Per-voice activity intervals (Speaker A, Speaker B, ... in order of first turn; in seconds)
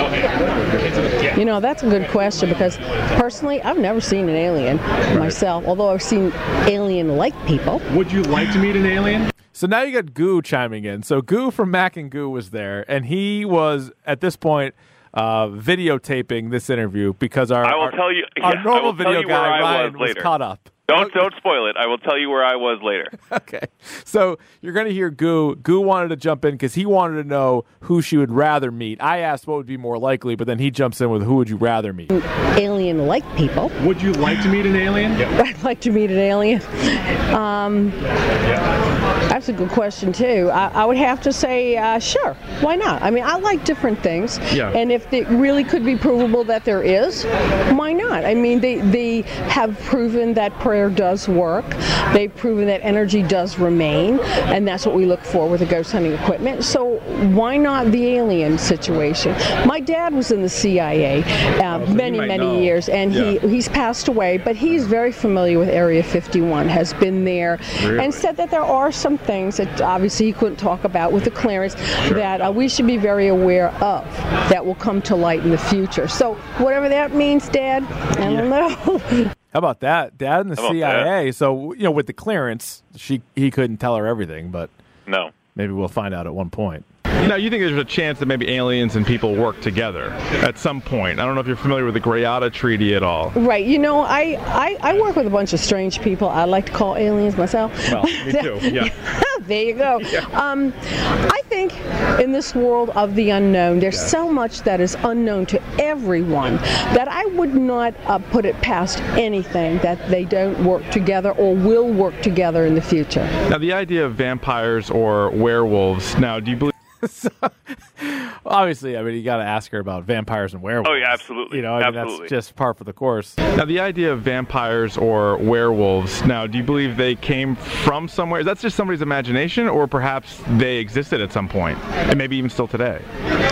Speaker A: 1.4-7.8, 32.1-33.7, 35.3-38.0, 39.3-79.3, 93.3-113.3
Speaker B: 7.9-9.3, 33.8-35.3
Speaker C: 9.5-21.2, 23.2-32.1, 79.5-84.7, 85.5-86.8, 117.0-123.4
Speaker D: 17.6-20.3, 20.9-23.1, 80.6-81.1, 85.1-85.3, 120.8-122.3
Speaker E: 44.5-44.8, 61.7-63.4, 67.8-68.2, 87.2-93.3, 97.9-98.9, 113.5-116.7, 123.5-133.1